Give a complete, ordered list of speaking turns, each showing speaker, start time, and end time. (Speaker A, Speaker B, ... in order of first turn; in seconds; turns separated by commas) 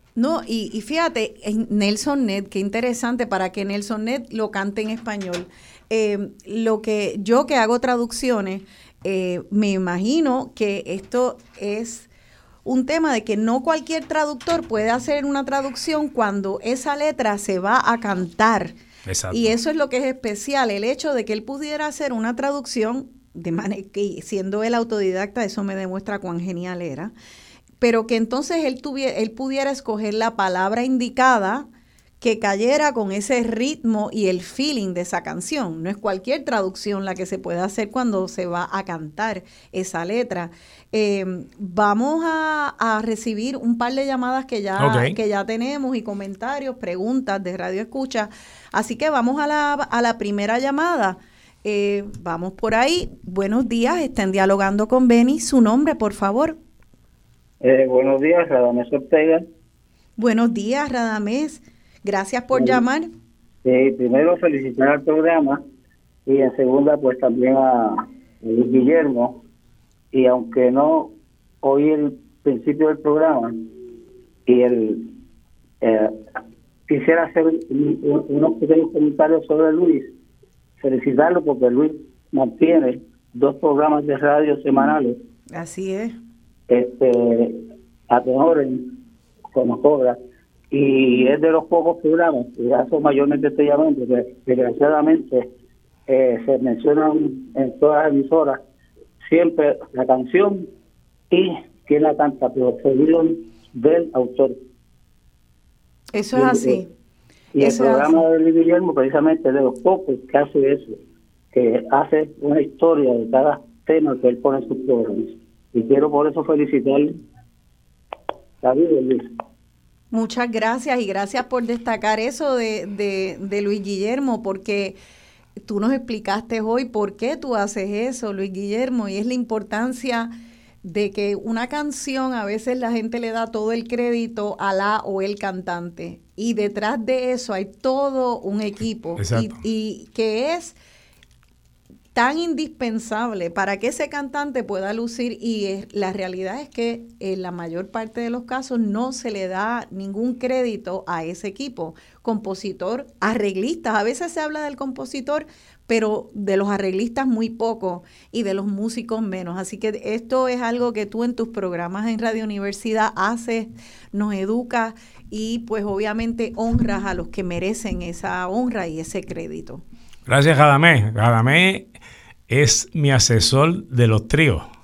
Speaker A: 0.2-12.1, Speaker A: 12.7-18.8, Speaker B: 19.1-19.6, Speaker A: 19.3-27.1, Speaker A: 27.8-31.7, Speaker A: 32.2-56.6, Speaker B: 44.8-45.2, Speaker C: 57.6-59.5, Speaker A: 60.2-63.1, Speaker C: 63.6-65.6, Speaker C: 66.3-69.4, Speaker C: 70.1-73.6, Speaker C: 74.5-75.1, Speaker C: 75.8-76.2, Speaker C: 76.9-80.1, Speaker C: 80.8-85.2, Speaker A: 85.5-86.2, Speaker C: 86.7-89.0, Speaker C: 89.5-90.2, Speaker C: 90.7-95.5, Speaker C: 96.1-98.6, Speaker C: 99.2-100.7, Speaker C: 101.3-104.6, Speaker A: 106.1-106.9, Speaker C: 106.3-106.8, Speaker C: 107.5-111.0, Speaker A: 107.6-108.1, Speaker C: 111.5-117.2, Speaker C: 118.6-119.3, Speaker A: 120.1-125.0, Speaker A: 125.7-130.3, Speaker A: 130.8-140.8, Speaker B: 139.2-139.6, Speaker A: 142.1-169.8, Speaker B: 170.3-171.9, Speaker B: 172.5-174.7